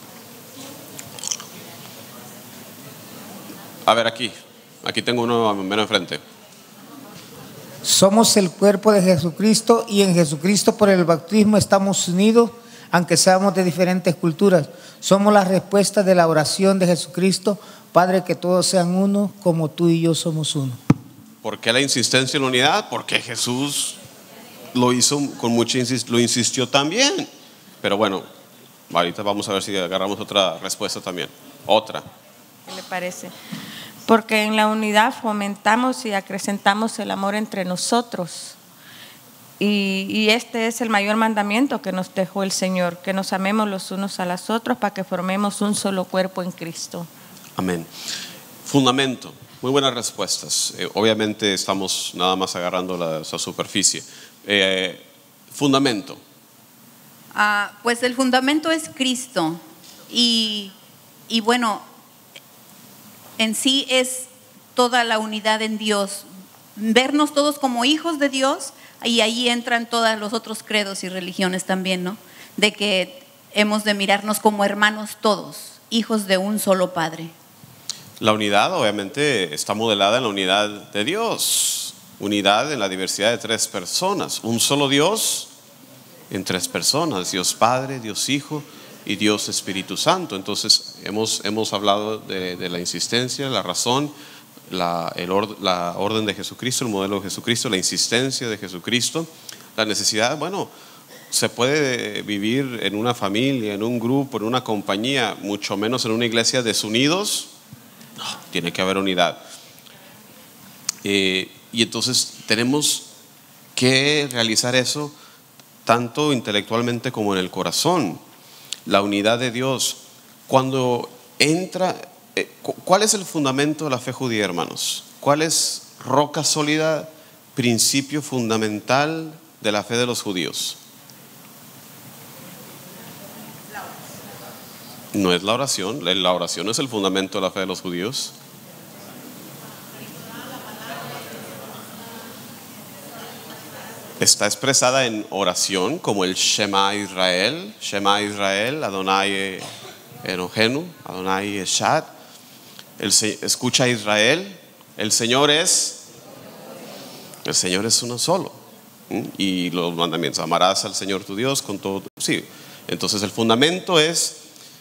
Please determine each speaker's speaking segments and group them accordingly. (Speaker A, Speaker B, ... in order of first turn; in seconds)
Speaker A: 3.9-6.2, 21.4-24.0, 24.7-27.3, 27.8-28.3, 28.9-32.0, 47.6-47.9, 48.6-56.2, 78.2-85.5, 86.3-94.2, 94.7-100.7, 101.3-107.5, 108.2-109.4, 111.0-113.1, 113.8-115.1, 115.8-118.2, 118.8-130.8, 135.1-138.3, 144.2-149.7, 150.2-152.1, 153.0-156.0, 157.4-164.4
Speaker B: 7.8-20.8
Speaker C: 32.7-33.3, 34.0-38.5, 39.6-47.1
Speaker D: 57.3-60.7, 61.3-61.9, 63.4-77.3